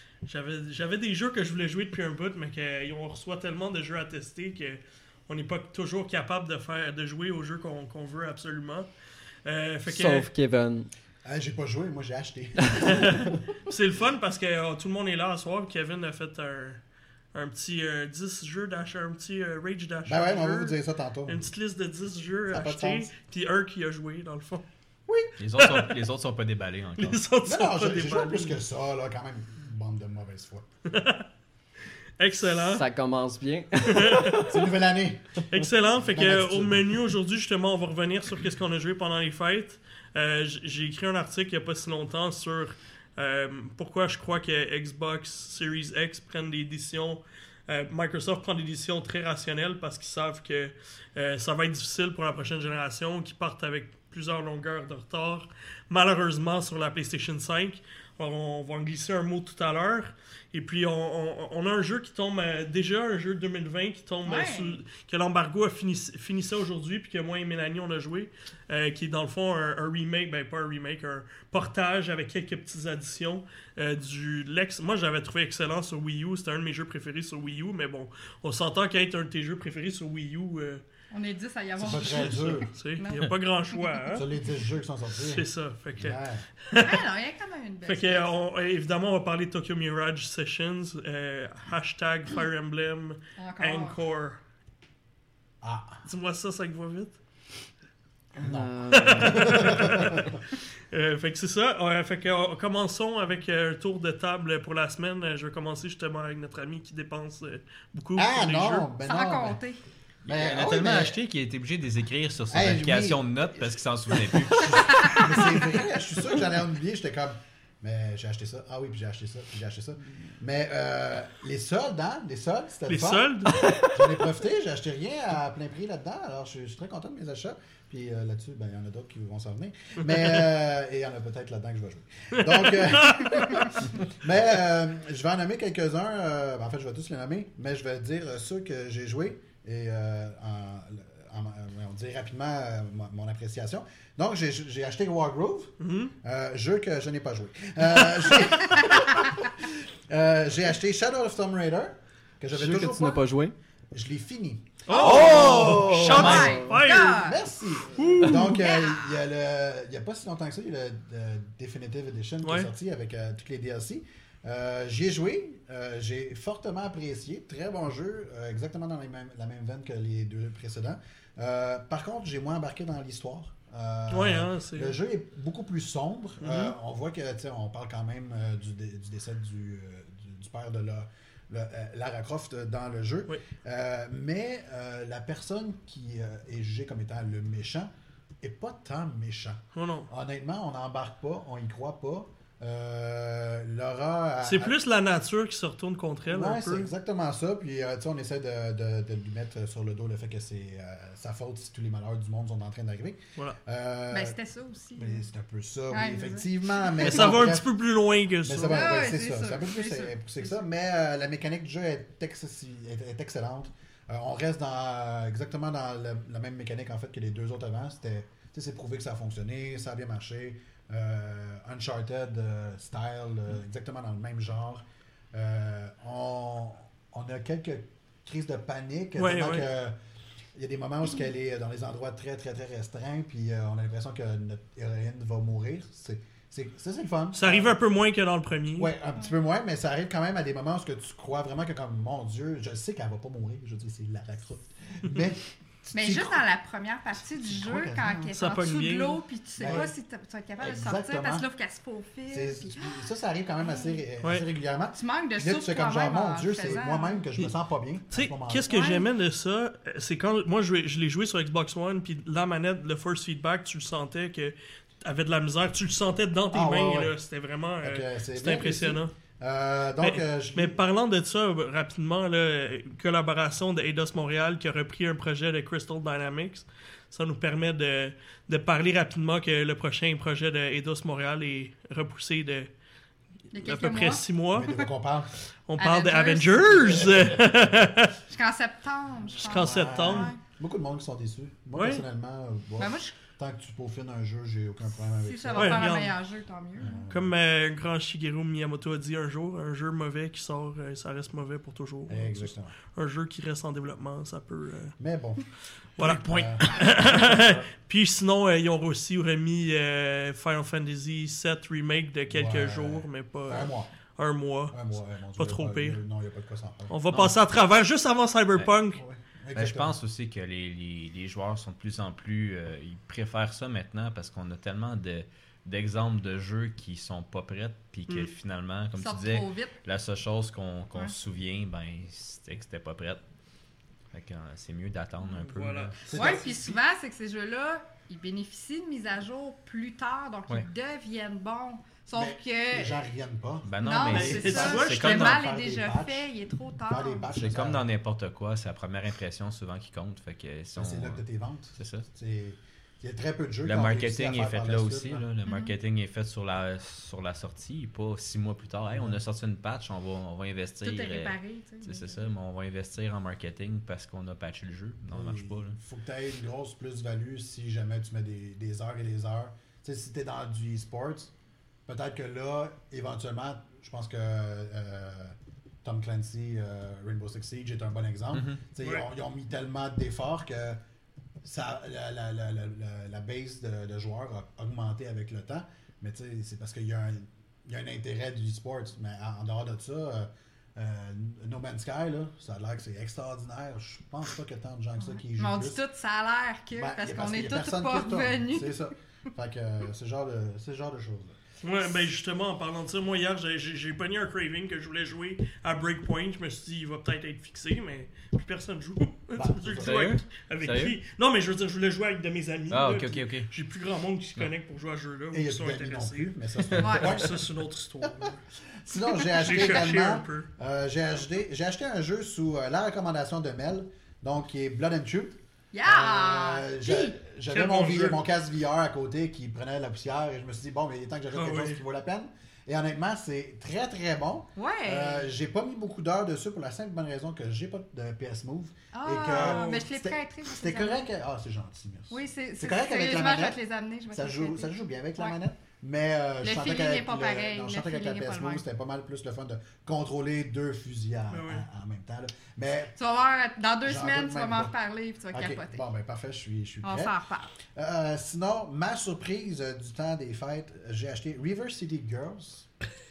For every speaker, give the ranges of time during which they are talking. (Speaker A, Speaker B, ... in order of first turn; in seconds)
Speaker A: 0.2-8.9, 9.4-10.3, 12.8-16.8, 17.3-24.6, 25.6-25.9, 27.0-28.6, 30.9-31.2, 32.2-32.8, 33.8-34.4, 35.5-80.8, 81.8-84.3, 85.2-87.0, 87.8-94.4, 96.0-97.2, 98.9-100.3, 100.9-108.9, 122.9-123.7, 132.3-133.9, 145.8-146.1, 154.9-157.2, 157.9-158.6, 162.4-162.7, 174.1-174.9, 176.4-176.7, 189.7-190.1, 194.4-196.9, 207.0-208.8, 229.2-229.7, 237.3-238.9, 248.3-249.9, 258.1-269.1, 270.0-282.7, 283.6-284.9, 285.7-288.1, 289.4-290.3, 291.7-292.0, 295.6-296.1, 297.1-304.9, 306.0-314.8, 315.4-316.0, 316.9-319.0, 335.4-336.3, 344.1-345.3, 378.8-379.1, 401.6-418.4, 419.3-420.5, 427.5-428.2, 431.3-431.8, 439.3-439.8, 451.3-451.6
Speaker B: 9.8-10.9, 32.5-34.6, 98.3-100.0, 123.6-124.0, 152.5-153.5, 154.9-156.7
Speaker C: 11.2-13.4, 20.0-21.4, 22.5-23.1, 25.1-25.3, 27.4-30.6, 34.4-36.9, 81.8-82.7, 84.1-85.5, 86.0-86.5, 95.6-96.0, 98.4-100.4, 108.2-109.6, 110.2-111.2, 112.5-153.3, 153.9-187.9, 188.4-194.7, 196.3-204.3, 204.9-207.7, 208.4-230.0, 230.5-237.7, 238.8-246.4, 247.5-248.3, 249.6-249.9, 250.6-251.4, 252.3-258.7, 266.5-267.1, 267.8-270.8, 284.5-285.4, 286.8-287.8, 289.4-296.0, 296.8-297.3, 302.1-302.8, 305.0-305.4, 306.0-307.7, 312.3-313.9, 314.7-317.3, 318.9-319.9, 336.1-336.8, 342.1-346.3, 346.9-347.8, 350.8-355.2, 358.9-359.2, 365.1-371.3, 371.9-380.8, 381.4-395.8, 396.7-401.4, 409.3-410.1, 415.3-417.5, 418.0-443.6, 444.1-452.9, 453.8-454.7, 455.3-457.1, 457.7-462.7
Speaker D: 25.4-27.2, 110.3-115.2, 319.5-333.2, 334.1-336.0, 343.6-345.4, 347.4-351.2, 351.8-352.1, 353.6-365.8, 378.3-378.6, 409.8-410.9, 412.7-413.5
Speaker E: 64.2-64.8, 81.1-84.0, 86.7-88.3, 93.3-94.0, 109.0-109.8, 114.7-115.4, 148.9-149.3, 154.9-157.4, 158.4-159.2, 204.1-205.2, 205.9-207.3, 208.6-210.1, 245.9-253.0, 253.6-254.0, 254.9-257.2, 258.7-259.1, 283.5-284.2, 285.8-287.1, 288.3-290.4, 292.8-293.1, 295.2-297.0, 329.0-329.7, 336.1-343.0, 343.8-347.3, 355.4-355.7, 360.8-362.3, 395.1-398.9, 416.8-417.2, 425.7-427.2, 434.6-435.3, 438.9-441.0, 442.1-445.4, 446.4-448.6, 453.0-455.8, 456.8-457.5